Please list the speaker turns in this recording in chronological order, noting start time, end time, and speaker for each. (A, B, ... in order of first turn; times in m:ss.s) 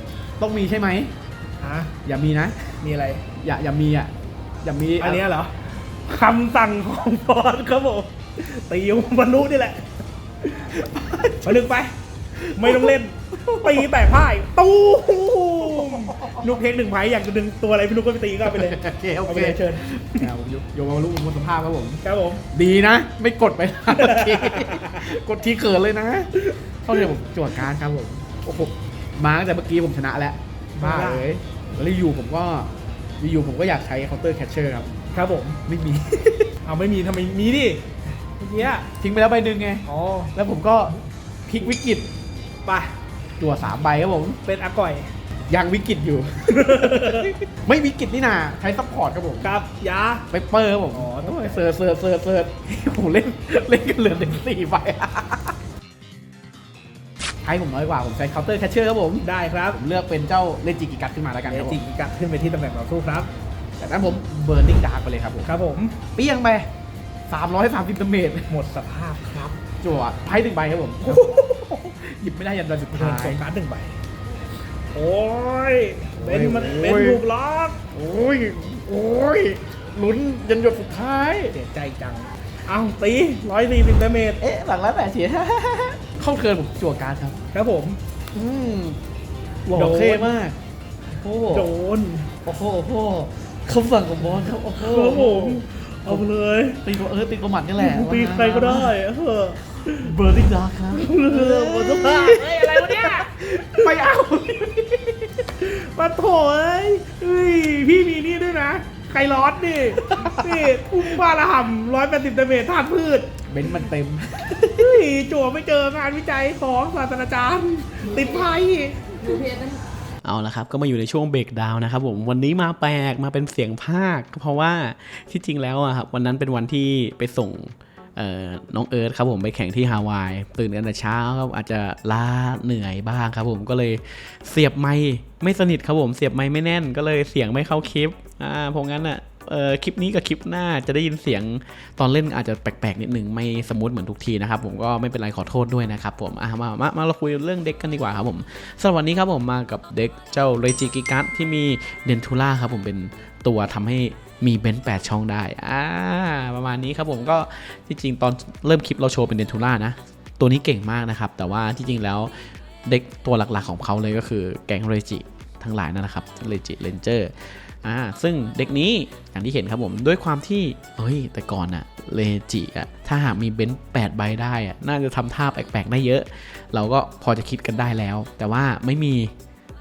0:00.4-0:01.1 A
0:01.6-0:01.9 B
0:02.0-0:02.6 A
0:02.8-0:03.2 B
0:03.4-0:04.1 A
0:04.6-0:05.2 A
0:05.0-0:05.5 B
0:06.1-0:09.9 B
0:10.4-0:10.8 B
0:10.8-0:11.6 A
0:11.4-0:11.9 B
0:12.4-0:12.9 A
0:12.5-0:20.3 B
0:13.4-0:13.9 A
0:15.7-0:16.5 A
0:18.5-0:22.0 A
0:22.0-0:22.4 B
0:22.5-0:26.3 A
0:23.9-0:25.0 B
0:26.4-0:27.0 B
0:26.9-0:32.7 A
0:30.8-0:31.3 B
0:33.2-0:34.9 A
0:35.1-0:35.6 B
0:35.7-0:36.5 A
0:36.6-0:38.9 B
0:39.0-0:42.1 A
0:39.9-0:40.3 B
0:42.7-0:42.9 B
0:43.4-0:44.4 A
0:44.4-0:45.1 B
0:45.5-0:49.6 A
0:46.5-0:47.4 B
0:49.4-0:50.2 B
0:50.3-0:55.5 A
0:50.9-0:51.6 B
0:57.4-1:01.8 A
0:59.2-0:59.8 B
1:01.5-1:03.3 B
1:03.8-1:05.5 A
1:05.4-1:06.0 B
1:06.0-1:06.7 A
1:07.3-1:08.5 A
1:08.5-1:09.6 B
1:09.8-1:13.4 A
1:11.0-1:11.4 B
1:12.9-1:14.0 B
1:14.9-1:17.9 B
1:16.2-1:17.2 A
1:18.0-1:21.5 A
1:21.5-1:24.4 B
1:24.4-1:27.4 A
1:27.5-1:28.0 B
1:28.4-1:29.0 A
1:29.7-1:30.5 A
1:29.7-1:30.4 B
1:31.2-1:31.6 A
1:31.5-1:32.3 B
1:32.4-1:36.2 A
1:33.7-1:34.0 C
1:34.6-1:36.9 B
1:36.8-1:38.8 A
1:37.8-1:40.1 B
1:40.1-1:45.3 A
1:40.9-1:43.9 B
1:45.6-1:53.8 B
1:50.2-1:50.4 A
1:53.5-1:54.8 A
1:54.6-1:59.7 B
2:00.2-2:59.3 C